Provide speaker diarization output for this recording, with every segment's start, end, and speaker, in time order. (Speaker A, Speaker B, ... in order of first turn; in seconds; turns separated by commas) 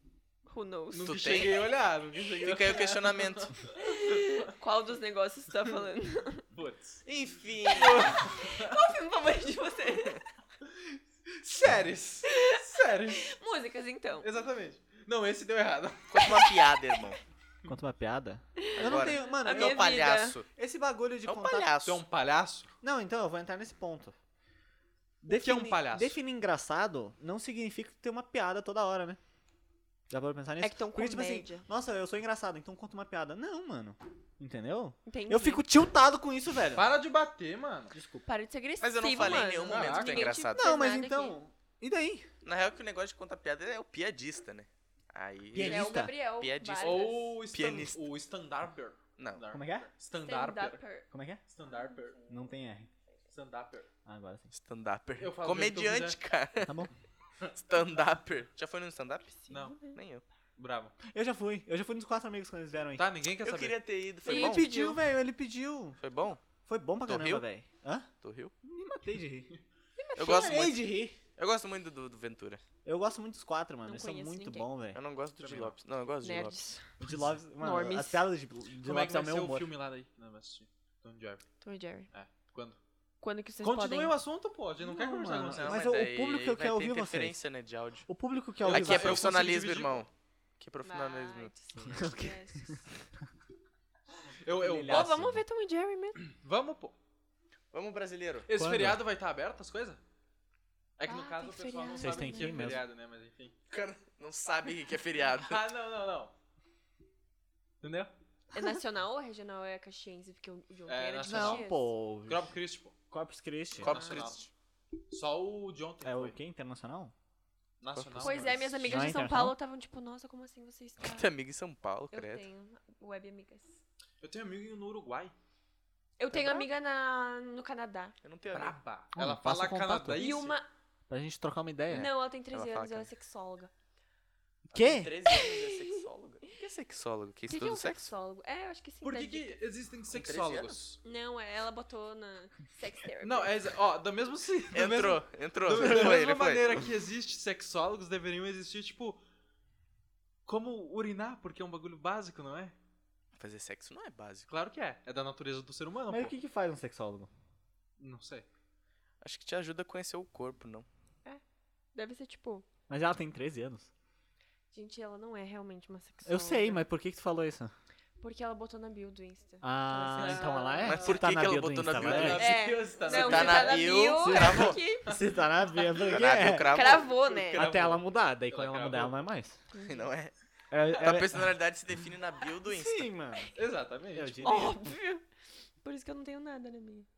Speaker A: 0.5-1.5, Speaker B: 0.9-4.5, Speaker C: 1.1-1.7, Speaker C: 2.4-3.5, Speaker A: 3.8-6.5, Speaker B: 6.5-7.0, Speaker C: 7.0-8.3, Speaker B: 7.7-8.8, Speaker A: 8.1-10.2, Speaker B: 10.6-13.3, Speaker A: 12.3-12.6, Speaker A: 13.1-14.3, Speaker B: 14.2-16.6, Speaker C: 16.1-17.2, Speaker D: 17.6-19.9, Speaker A: 18.6-20.4, Speaker C: 18.7-20.5, Speaker D: 20.5-21.7, Speaker C: 21.3-22.0, Speaker B: 21.8-22.7, Speaker D: 22.8-24.1, Speaker D: 25.2-29.2, Speaker B: 25.3-26.2, Speaker D: 30.1-36.8, Speaker A: 30.6-31.7, Speaker A: 35.1-35.6, Speaker B: 36.7-37.9, Speaker D: 37.9-38.3, Speaker A: 38.3-41.4, Speaker C: 38.8-40.6, Speaker B: 39.1-40.4, Speaker D: 40.5-42.3, Speaker C: 42.4-48.0, Speaker D: 45.5-46.1, Speaker A: 45.6-47.4, Speaker B: 46.8-50.8, Speaker C: 49.2-49.4, Speaker D: 49.5-49.9, Speaker A: 50.2-51.1, Speaker D: 51.1-51.4, Speaker B: 51.5-52.2, Speaker A: 51.7-52.1, Speaker D: 52.3-52.9, Speaker B: 53.3-53.9, Speaker D: 54.0-54.5, Speaker C: 54.5-56.8, Speaker B: 55.2-56.2, Speaker D: 56.6-56.9, Speaker C: 57.5-59.4, Speaker A: 59.4-60.0, Speaker B: 59.5-59.8, Speaker C: 59.9-60.2, Speaker B: 60.6-61.0, Speaker D: 61.1-63.1, Speaker B: 63.0-63.8, Speaker C: 63.4-64.7, Speaker A: 64.2-65.0, Speaker D: 64.2-66.0, Speaker C: 66.0-66.4, Speaker D: 66.7-68.1, Speaker C: 67.0-67.5, Speaker C: 68.2-68.5, Speaker D: 68.6-69.5, Speaker A: 70.0-70.5, Speaker C: 70.2-72.6, Speaker D: 70.2-71.2, Speaker D: 72.8-75.7, Speaker A: 73.8-74.7, Speaker C: 74.9-76.6, Speaker A: 76.2-76.9, Speaker D: 77.0-79.7, Speaker A: 77.6-78.3, Speaker B: 78.8-81.5, Speaker A: 81.6-82.1, Speaker B: 82.1-82.8, Speaker A: 83.2-84.1, Speaker B: 83.6-85.9, Speaker D: 84.8-87.4, Speaker C: 85.5-88.1, Speaker D: 88.1-89.3, Speaker B: 88.6-90.0, Speaker C: 88.6-91.5, Speaker A: 90.8-92.8, Speaker D: 91.7-92.8, Speaker B: 94.4-95.1, Speaker D: 94.6-95.4, Speaker A: 94.9-96.2, Speaker B: 96.2-96.9, Speaker C: 97.7-98.5, Speaker B: 98.5-100.0, Speaker D: 98.5-99.0, Speaker B: 101.0-103.5, Speaker A: 101.0-102.8, Speaker D: 102.0-102.8, Speaker C: 103.7-105.6, Speaker B: 105.4-106.3, Speaker B: 107.8-108.1, Speaker A: 108.5-111.8, Speaker B: 110.9-112.9, Speaker D: 111.3-112.5, Speaker D: 113.1-114.2, Speaker C: 113.8-114.5, Speaker B: 113.8-114.4, Speaker A: 113.9-114.2, Speaker B: 115.1-116.4, Speaker D: 116.0-117.1, Speaker B: 117.8-118.8, Speaker C: 117.9-118.6, Speaker A: 118.2-121.3, Speaker D: 118.8-119.5, Speaker C: 121.0-122.4, Speaker A: 122.1-123.8, Speaker B: 124.2-125.3, Speaker A: 126.2-128.2, Speaker C: 126.3-126.7, Speaker C: 128.2-128.8, Speaker B: 128.5-130.6, Speaker D: 129.1-130.4, Speaker A: 130.2-130.7, Speaker D: 131.1-132.1, Speaker C: 131.9-133.1, Speaker A: 131.9-133.7, Speaker D: 134.7-135.2, Speaker C: 134.7-138.1, Speaker A: 135.3-136.0, Speaker A: 137.5-139.6, Speaker B: 139.0-141.0, Speaker C: 140.1-140.8, Speaker A: 141.0-143.5, Speaker B: 143.2-149.2, Speaker C: 144.7-146.8, Speaker B: 150.4-152.7, Speaker C: 153.3-154.5, Speaker B: 154.5-156.3, Speaker D: 156.1-157.3, Speaker B: 158.0-158.4, Speaker C: 159.2-160.9, Speaker A: 161.9-162.7, Speaker D: 162.9-163.9, Speaker A: 164.7-166.8, Speaker D: 166.2-167.7, Speaker A: 168.2-171.1, Speaker D: 169.6-172.5, Speaker B: 170.2-171.2, Speaker C: 170.8-174.8, Speaker B: 171.9-173.9, Speaker A: 172.3-175.2, Speaker D: 173.9-177.0, Speaker B: 175.1-176.2, Speaker C: 176.1-177.8, Speaker A: 176.7-177.7, Speaker B: 177.5-179.3, Speaker D: 177.5-179.6, Speaker A: 179.7-180.1, Speaker C: 179.8-180.3, Speaker D: 180.7-181.6, Speaker C: 180.9-183.1, Speaker D: 182.7-183.5, Speaker B: 183.5-184.6, Speaker D: 184.1-184.9, Speaker A: 184.4-185.2, Speaker A: 185.8-187.1